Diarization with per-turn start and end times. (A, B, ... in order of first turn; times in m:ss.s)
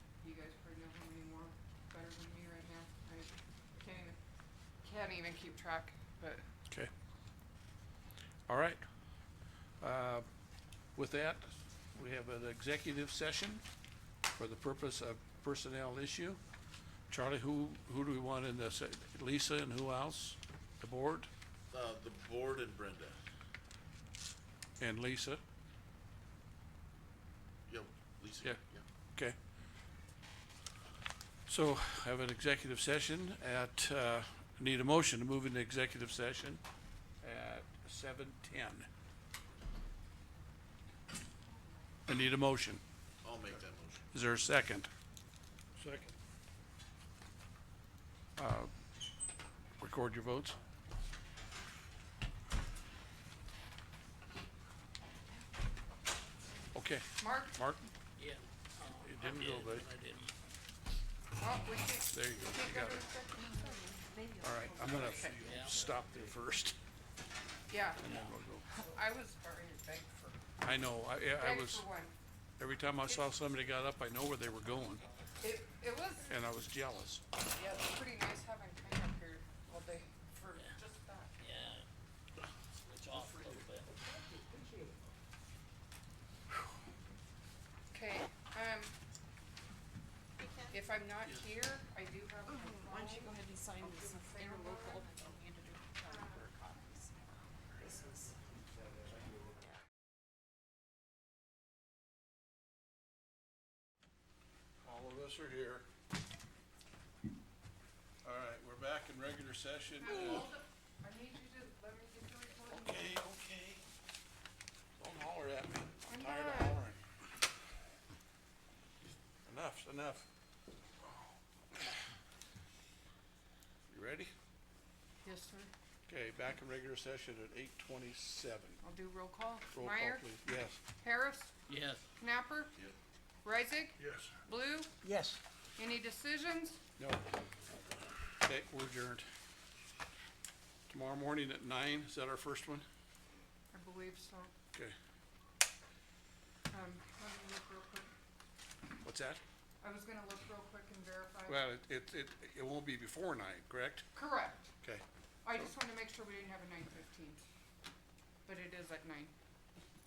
0:00.2-0:04.2 A
0:04.8-0:06.5 A
0:08.5-0:08.8 B
0:09.8-0:10.3 B
0:11.0-0:13.6 B
0:14.4-0:16.4 B
0:17.1-0:21.3 B
0:21.7-0:23.2 C
0:24.8-0:25.4 B
0:27.7-0:28.8 C
0:31.5-0:36.6 B
0:37.2-0:38.9 B
0:42.1-0:42.8 B
0:43.2-0:44.1 C
0:44.1-0:44.9 B
0:45.8-0:46.2 B
0:48.4-0:48.7 B
0:49.8-0:50.6 B
0:56.7-0:57.9 B
0:57.2-0:57.6 A
0:58.2-1:00.3 D
0:59.0-0:59.9 B
1:01.4-1:03.9 A
1:02.1-1:03.1 B
1:03.4-1:05.5 E
1:04.4-1:06.8 B
1:05.4-1:05.9 D
1:07.7-1:10.4 A
1:08.0-1:08.7 B
1:10.6-1:11.9 B
1:11.4-1:12.2 A
1:12.6-1:15.0 B
1:15.4-1:16.3 A
1:16.3-1:17.2 B
1:17.5-1:21.4 A
1:21.4-1:21.9 D
1:22.8-1:23.9 D
1:24.1-1:24.9 A
1:27.9-1:28.9 A
1:30.4-1:30.8 E
1:30.7-1:35.1 A
1:32.5-1:38.4 E
1:36.0-1:36.4 A
1:44.8-1:45.9 B
1:48.2-1:50.5 B
1:50.0-1:53.2 A
1:52.7-1:53.8 B
1:55.0-1:57.0 B
1:56.1-1:56.8 A
1:59.5-2:00.3 B
2:03.9-2:04.3 B
2:05.2-2:05.7 A
2:06.1-2:08.8 B
2:08.8-2:10.3 A
2:09.7-2:10.8 B
2:11.0-2:11.5 A
2:11.7-2:12.0 D
2:12.2-2:12.7 A
2:13.4-2:14.9 A
2:14.0-2:14.4 B
2:15.0-2:15.4 B
2:15.8-2:16.8 A
2:18.4-2:19.3 B
2:20.9-2:22.9 B
2:23.7-2:24.5 A
2:26.7-2:28.1 A
2:29.0-2:29.4 B
2:29.8-2:31.7 A
2:31.5-2:34.0 B
2:34.1-2:34.7 A
2:35.4-2:37.4 A
2:38.4-2:39.3 A